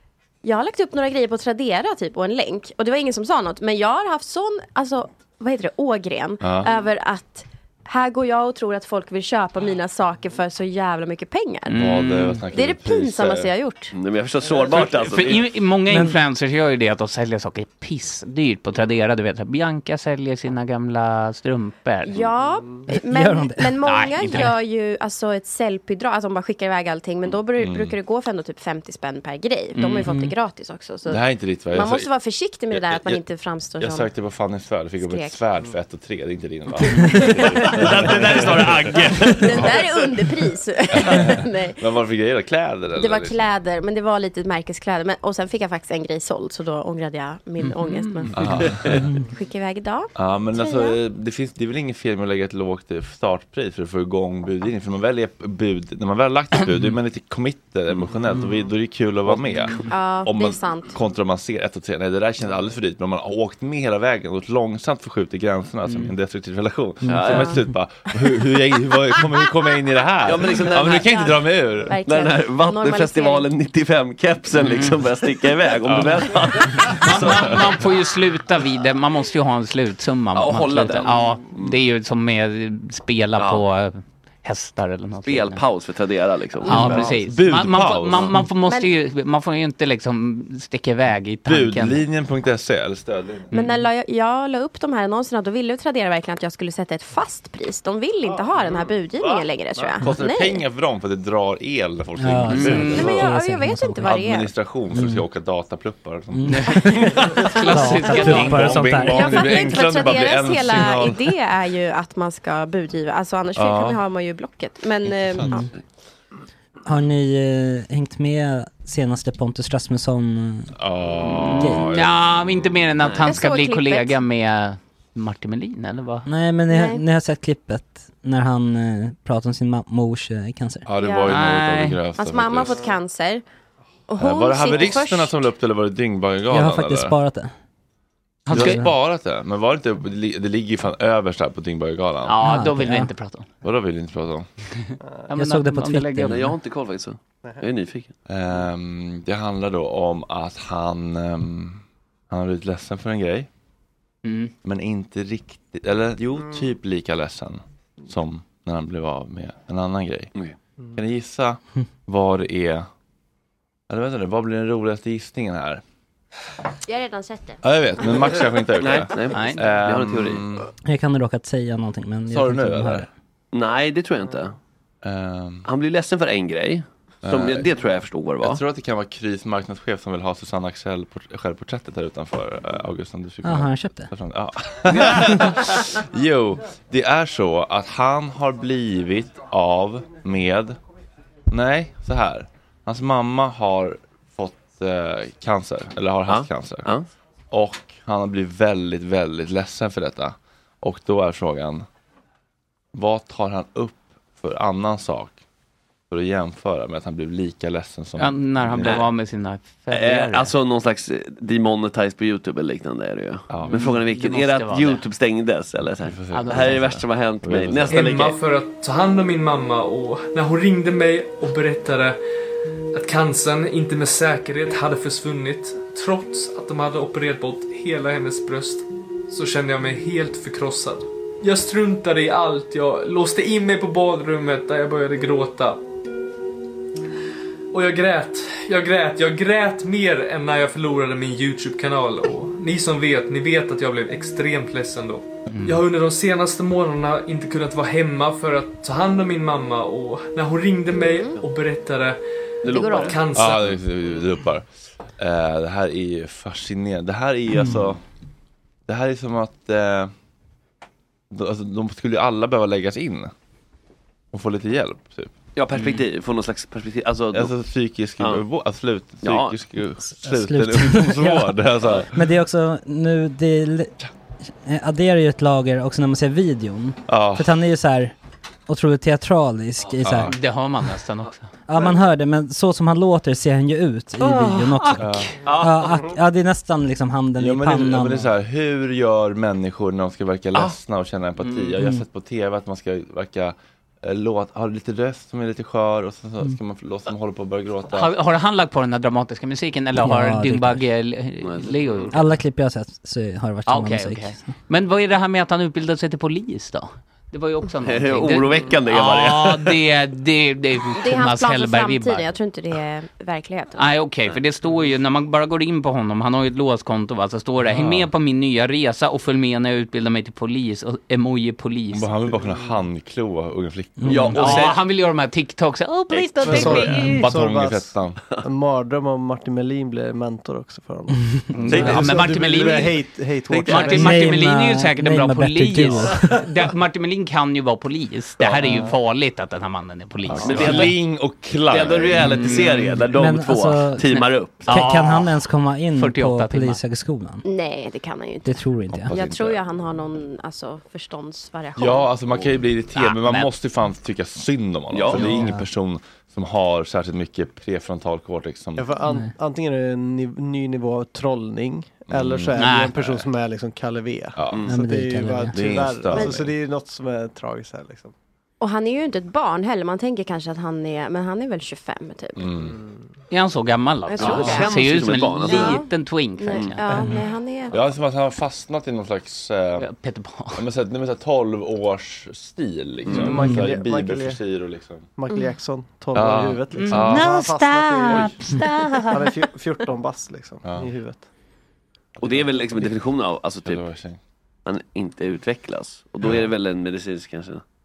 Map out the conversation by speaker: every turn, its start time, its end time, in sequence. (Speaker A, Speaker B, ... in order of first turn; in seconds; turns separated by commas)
Speaker A: 0.4-11.9, Speaker B: 6.4-6.7, Speaker C: 11.7-12.4, Speaker B: 11.7-13.5, Speaker A: 12.5-13.9, Speaker D: 13.9-15.4, Speaker C: 14.7-22.1, Speaker E: 15.9-16.1, Speaker A: 22.0-34.1, Speaker E: 22.9-23.7, Speaker C: 23.8-24.5, Speaker B: 27.6-27.9, Speaker C: 29.8-30.3, Speaker B: 31.1-32.1, Speaker B: 32.7-33.2, Speaker B: 33.8-38.9, Speaker A: 35.0-35.4, Speaker A: 36.9-38.0, Speaker D: 37.6-40.1, Speaker A: 39.4-41.8, Speaker B: 40.9-43.5, Speaker A: 43.0-48.5, Speaker C: 47.6-48.3, Speaker B: 48.3-49.0, Speaker D: 48.4-48.9, Speaker A: 49.1-51.0, Speaker B: 50.1-72.0, Speaker D: 59.3-59.9, Speaker A: 59.9-60.9, Speaker C: 65.9-66.1, Speaker E: 67.0-67.3, Speaker D: 67.0-67.5, Speaker D: 70.2-71.3, Speaker A: 70.9-71.3, Speaker A: 71.9-73.5, Speaker D: 72.0-77.6, Speaker C: 74.5-75.0, Speaker B: 75.8-76.3, Speaker C: 76.8-85.6, Speaker D: 80.3-81.8, Speaker D: 83.4-83.6, Speaker D: 85.2-87.2, Speaker C: 86.6-92.0, Speaker B: 87.0-88.3, Speaker A: 88.7-88.9, Speaker B: 91.5-93.5, Speaker C: 93.5-93.9, Speaker A: 93.5-100.6, Speaker F: 98.2-98.9, Speaker B: 100.0-103.2, Speaker E: 102.2-104.0, Speaker C: 102.5-103.2, Speaker A: 102.9-104.5, Speaker B: 104.0-107.2, Speaker E: 104.9-105.2, Speaker E: 106.3-109.4, Speaker C: 106.5-109.2, Speaker B: 107.8-111.2, Speaker A: 109.0-115.7, Speaker B: 113.5-114.0, Speaker B: 115.2-115.6, Speaker E: 116.9-120.7, Speaker B: 120.8-122.7, Speaker E: 121.4-121.9, Speaker C: 121.5-126.3, Speaker D: 123.0-123.4, Speaker A: 123.2-124.2, Speaker E: 126.2-130.8, Speaker A: 126.7-127.0, Speaker B: 130.8-132.8, Speaker A: 131.0-131.4, Speaker C: 131.3-132.0, Speaker A: 132.2-133.4, Speaker A: 134.1-135.4, Speaker B: 134.2-137.2, Speaker E: 136.5-137.5, Speaker C: 138.5-138.8, Speaker E: 138.5-138.9, Speaker B: 138.5-142.3, Speaker C: 142.2-143.5, Speaker E: 142.4-143.1, Speaker B: 143.6-144.5, Speaker C: 145.3-146.5, Speaker E: 145.3-146.5, Speaker D: 146.3-148.1, Speaker B: 148.3-153.5, Speaker C: 154.2-154.5, Speaker B: 154.6-160.3, Speaker B: 160.9-162.9, Speaker B: 163.9-165.8, Speaker A: 166.9-167.6, Speaker B: 167.6-170.7, Speaker D: 168.8-170.5, Speaker C: 169.3-169.6, Speaker E: 170.8-173.1, Speaker B: 172.3-173.1, Speaker D: 173.5-174.6, Speaker B: 175.0-175.7, Speaker D: 175.6-178.6, Speaker B: 177.2-177.7, Speaker B: 178.4-190.8, Speaker E: 183.4-184.1, Speaker B: 191.5-196.9, Speaker D: 196.3-197.1, Speaker B: 197.5-201.9, Speaker B: 202.9-205.4, Speaker B: 206.1-209.0, Speaker C: 208.2-210.5, Speaker D: 208.8-209.1, Speaker D: 209.9-218.4, Speaker B: 213.5-213.9, Speaker C: 213.7-215.0, Speaker B: 216.0-218.0, Speaker C: 216.3-216.8, Speaker G: 217.9-222.2, Speaker G: 222.9-235.8, Speaker G: 237.7-252.2, Speaker C: 245.5-245.8, Speaker A: 251.0-251.4, Speaker D: 252.6-253.3, Speaker A: 252.7-253.2, Speaker G: 252.9-253.7, Speaker B: 253.3-258.0, Speaker B: 258.9-260.1, Speaker B: 261.3-263.3, Speaker B: 264.3-265.4, Speaker D: 265.5-267.5, Speaker C: 265.7-266.0, Speaker B: 267.3-272.2, Speaker D: 269.2-269.6, Speaker E: 270.2-271.5, Speaker E: 272.1-273.9, Speaker E: 274.6-278.1, Speaker B: 277.1-277.5, Speaker E: 278.7-280.3, Speaker B: 280.0-280.4, Speaker C: 280.3-281.5, Speaker E: 281.7-288.3, Speaker B: 285.0-285.3, Speaker D: 285.4-286.1, Speaker B: 287.4-298.1, Speaker C: 291.4-291.8, Speaker C: 297.9-302.2, Speaker E: 300.0-300.8, Speaker D: 301.4-302.1, Speaker E: 302.1-304.5, Speaker C: 303.7-312.2, Speaker D: 307.8-309.8, Speaker A: 310.9-313.9, Speaker C: 313.8-322.1, Speaker B: 317.6-318.1, Speaker B: 321.9-324.7, Speaker E: 324.0-324.3, Speaker D: 324.1-324.8, Speaker C: 324.1-327.2, Speaker D: 326.1-326.6, Speaker F: 326.4-334.1, Speaker B: 326.4-328.2, Speaker C: 331.5-340.9, Speaker B: 331.7-332.9, Speaker D: 333.5-334.2, Speaker E: 333.9-336.4, Speaker B: 340.2-342.2, Speaker D: 340.4-341.0, Speaker D: 341.7-345.0, Speaker C: 342.1-343.0, Speaker E: 343.1-347.4, Speaker C: 344.1-345.3, Speaker C: 345.9-346.8, Speaker A: 347.4-348.5, Speaker E: 348.4-349.1, Speaker B: 348.9-349.6, Speaker A: 349.1-352.1, Speaker B: 351.8-358.9, Speaker D: 352.3-352.6, Speaker C: 352.9-353.5, Speaker D: 354.9-355.4, Speaker E: 355.1-355.6, Speaker F: 358.8-368.1, Speaker B: 362.1-363.3, Speaker C: 362.5-363.0, Speaker B: 364.4-364.7, Speaker D: 364.5-364.7, Speaker E: 364.7-365.6, Speaker B: 365.5-366.5, Speaker A: 366.1-366.5, Speaker A: 368.6-372.5, Speaker B: 372.4-372.7, Speaker F: 372.7-373.1, Speaker C: 373.3-377.0, Speaker A: 374.1-374.8, Speaker D: 374.1-375.8, Speaker A: 375.4-377.8, Speaker B: 377.7-379.9, Speaker C: 379.8-380.6, Speaker B: 380.5-385.1, Speaker D: 383.0-383.4, Speaker F: 383.1-384.4, Speaker F: 385.1-391.3, Speaker B: 386.1-387.5, Speaker C: 388.1-389.2, Speaker B: 390.6-390.9, Speaker B: 392.2-392.9, Speaker D: 392.2-393.9, Speaker B: 393.6-394.2, Speaker D: 394.6-397.6